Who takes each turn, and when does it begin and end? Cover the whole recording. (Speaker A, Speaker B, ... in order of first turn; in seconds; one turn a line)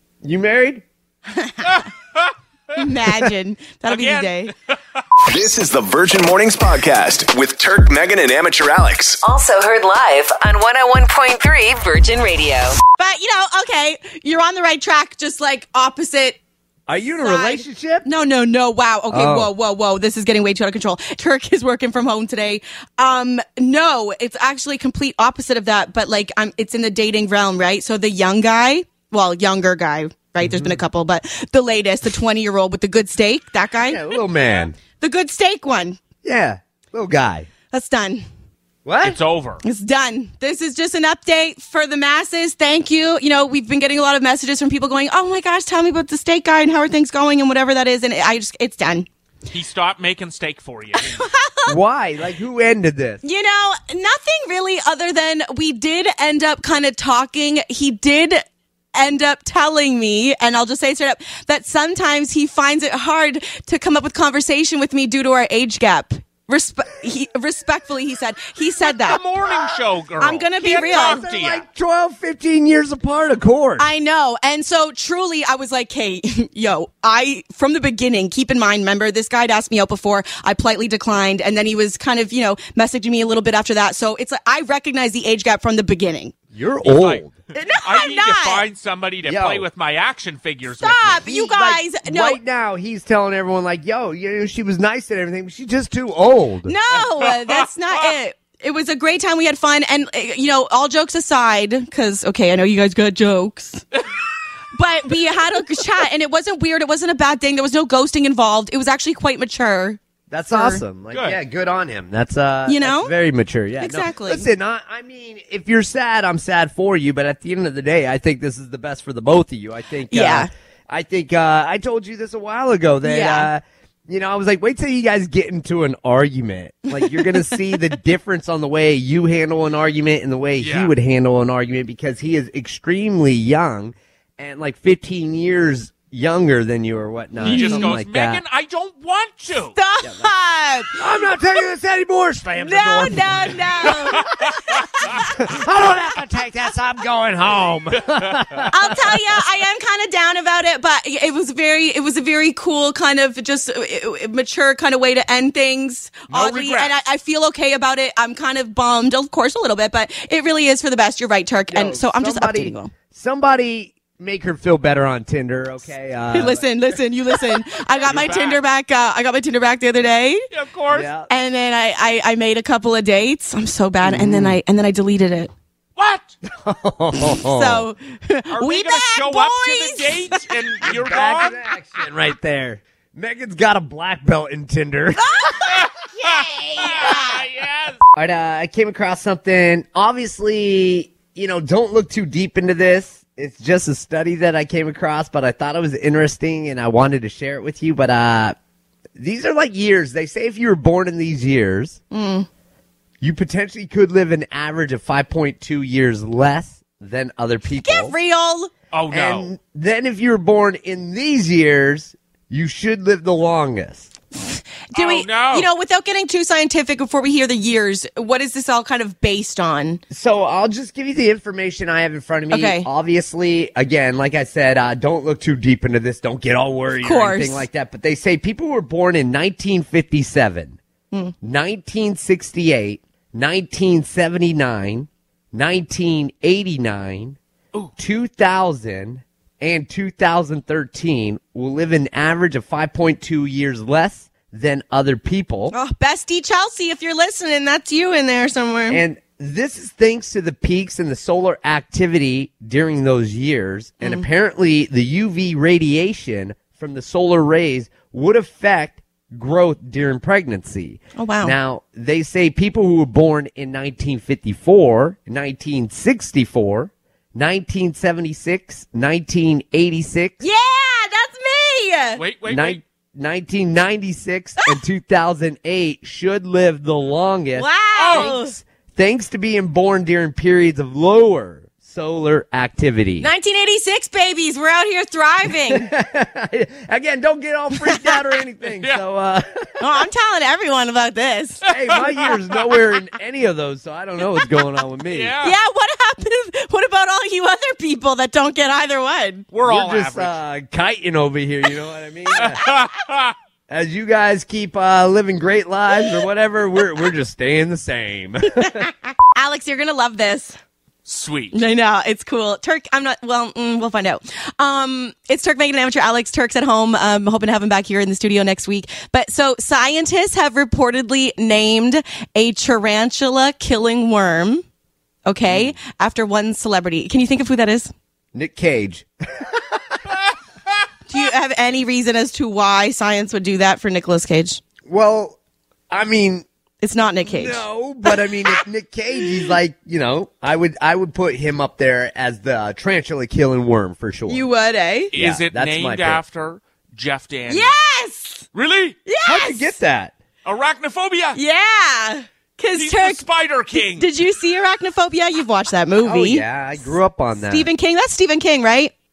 Speaker A: 0.2-0.8
Speaker B: 1.3-1.9
Speaker C: 1.7-2.3
Speaker B: 2.7-4.5
Speaker C: 3.8-5.0
Speaker D: 5.2-9.2
Speaker E: 9.2-12.8
Speaker B: 13.0-16.4
Speaker A: 16.9-18.1
Speaker B: 17.1-34.1
Speaker A: 19.1-19.5
Speaker A: 30.4-30.8
Speaker A: 33.9-34.8
Speaker B: 35.0-36.0
Speaker A: 36.2-37.5
Speaker B: 37.7-38.2
Speaker A: 38.8-39.2
Speaker C: 39.0-39.6
Speaker B: 39.6-49.1
Speaker C: 49.5-51.3
Speaker B: 50.9-51.7
Speaker A: 51.7-53.2
Speaker B: 53.2-58.4
Speaker B: 58.9-69.2
Speaker C: 68.8-71.6
Speaker B: 70.2-71.2
Speaker A: 70.9-73.9
Speaker B: 73.8-86.3
Speaker A: 86.5-87.3
Speaker C: 86.8-91.2
Speaker B: 87.5-88.6
Speaker A: 89.2-89.7
Speaker B: 90.8-92.4
Speaker A: 91.2-96.7
Speaker B: 96.7-103.8
Speaker C: 97.2-97.7
Speaker B: 104.7-110.0
Speaker A: 110.3-138.4
Speaker B: 110.5-110.8
Speaker C: 111.1-111.4
Speaker B: 112.7-113.1
Speaker B: 113.8-114.5
Speaker B: 120.1-120.5
Speaker B: 123.0-123.5
Speaker B: 127.0-127.4
Speaker C: 130.6-130.9
Speaker C: 137.4-139.8
Speaker B: 137.5-138.0
Speaker B: 139.7-141.0
Speaker A: 140.0-140.3
Speaker A: 140.9-144.3
Speaker B: 142.6-145.3
Speaker C: 144.1-145.2
Speaker A: 145.0-149.3
Speaker C: 148.2-148.5
Speaker B: 148.7-162.9
Speaker C: 156.3-156.9
Speaker A: 161.7-166.6
Speaker B: 166.3-170.5
Speaker C: 168.0-168.6
Speaker C: 170.5-171.1
Speaker A: 170.9-171.3
Speaker B: 171.3-175.5
Speaker A: 174.0-174.6
Speaker C: 175.9-176.3
Speaker A: 176.4-177.9
Speaker B: 177.3-180.9
Speaker C: 178.5-181.6
Speaker A: 180.9-185.5
Speaker B: 185.2-187.3
Speaker C: 185.6-188.0
Speaker A: 188.1-198.6
Speaker A: 199.2-202.0
Speaker B: 202.1-202.5
Speaker A: 203.2-208.1
Speaker B: 207.7-208.7
Speaker C: 208.9-209.5
Speaker A: 209.1-214.1
Speaker B: 214.4-220.0
Speaker C: 214.9-215.7
Speaker A: 220.1-230.8
Speaker B: 222.5-222.9
Speaker B: 226.9-227.7
Speaker A: 231.4-237.4
Speaker A: 238.0-245.7
Speaker B: 245.7-249.0
Speaker A: 248.9-270.4
Speaker B: 254.0-254.3
Speaker B: 261.1-261.5
Speaker B: 270.4-272.2
Speaker C: 272.1-272.8
Speaker A: 272.4-283.3
Speaker B: 277.6-278.6
Speaker C: 277.9-278.3
Speaker B: 283.2-285.9
Speaker A: 285.6-290.0
Speaker C: 288.7-289.0
Speaker B: 289.8-291.7
Speaker C: 291.6-292.6
Speaker A: 291.7-295.4
Speaker C: 295.1-295.6
Speaker B: 295.4-299.4
Speaker C: 299.5-300.4
Speaker A: 299.6-302.6
Speaker C: 302.3-303.3
Speaker A: 303.7-308.9
Speaker B: 308.5-310.6
Speaker C: 311.1-311.6
Speaker B: 311.5-324.6
Speaker B: 325.2-327.9
Speaker A: 325.4-325.8
Speaker A: 328.3-330.0
Speaker B: 331.1-334.6
Speaker A: 334.9-335.4
Speaker A: 335.9-336.4
Speaker B: 336.8-338.6
Speaker A: 337.3-344.4
Speaker B: 339.2-339.5
Speaker B: 344.3-345.1
Speaker C: 345.1-347.7
Speaker A: 345.1-346.2
Speaker B: 347.5-348.4
Speaker C: 348.5-349.0
Speaker B: 349.1-349.7
Speaker A: 349.2-350.1
Speaker C: 350.4-351.4
Speaker B: 351.3-353.2
Speaker C: 352.7-354.1
Speaker B: 353.8-358.9
Speaker A: 356.0-357.7